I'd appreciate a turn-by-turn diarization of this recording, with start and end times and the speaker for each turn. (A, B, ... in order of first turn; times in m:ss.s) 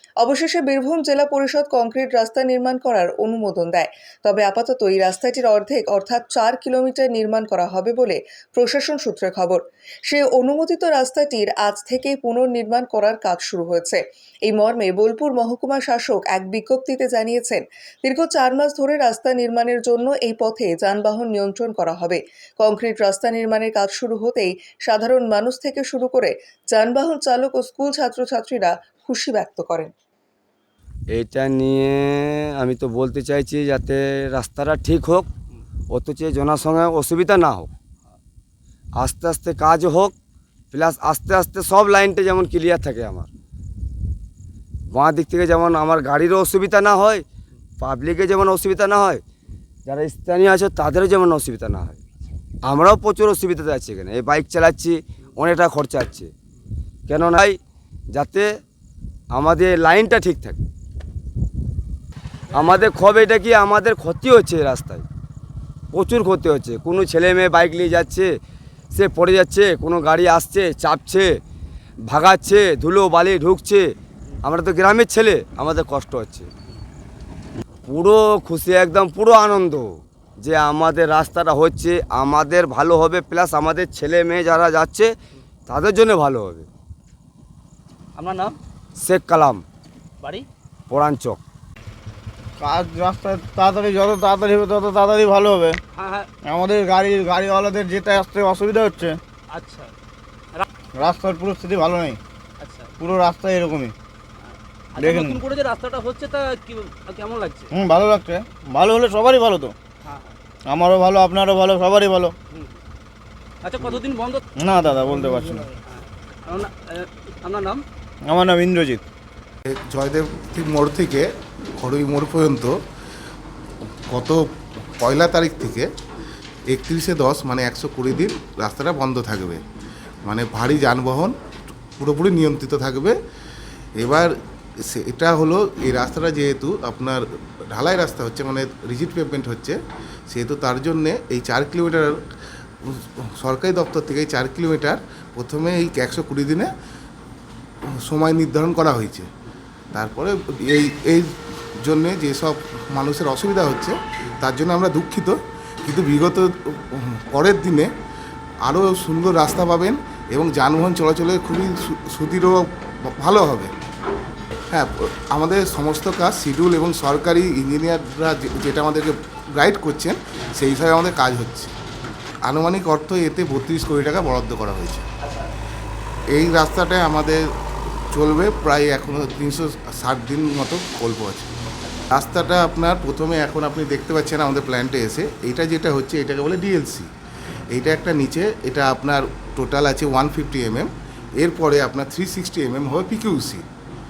0:00.2-0:29.9 A
0:31.1-0:35.3 B
0:35.9-0:37.7 B
0:39.0-0:40.1 B
0:40.7-0:43.3 B
0:44.9-0:47.2 B
0:47.8-0:49.2 B
0:49.9-0:52.0 B
0:52.7-0:56.3 B
0:57.1-0:57.6 B
0:58.1-0:58.5 B
0:59.3-1:00.6 B
1:02.5-1:05.0 B
1:05.9-1:08.3 B
1:08.9-1:11.4 B
1:12.1-1:13.9 B
1:14.4-1:16.5 B
1:17.8-1:19.9 B
1:20.4-1:25.1 B
1:25.7-1:26.7 B
1:28.2-1:28.6 C
1:29.0-1:29.6 B
1:30.2-1:30.5 C
1:30.9-1:31.4 B
1:32.6-1:35.8 D
1:35.9-1:36.3 C
1:36.4-1:39.2 D
1:39.5-1:39.9 C
1:41.0-1:42.2 D
1:42.6-1:42.9 C
1:43.0-1:43.9 D
1:44.4-1:47.7 C
1:45.0-1:45.4 D
1:47.7-1:49.7 D
1:50.0-1:50.3 C
1:50.7-1:52.3 D
1:53.6-1:54.4 C
1:54.6-1:55.7 D
1:55.8-1:57.8 C
1:58.2-1:59.0 D
1:59.6-2:02.8 E
2:04.1-2:04.4 E
2:05.0-2:05.9 E
2:06.7-2:09.6 E
2:10.2-2:11.3 E
2:12.0-2:13.2 E
2:14.0-2:19.8 E
2:20.3-2:22.2 E
2:22.8-2:26.7 E
2:27.9-2:29.3 E
2:29.9-2:37.9 E
2:38.6-2:43.7 E
2:44.7-2:51.7 E
2:52.4-2:55.0 E
2:56.3-2:57.4 E
2:58.1-3:01.5 E
3:02.1-3:07.1 E
3:07.7-3:13.6 E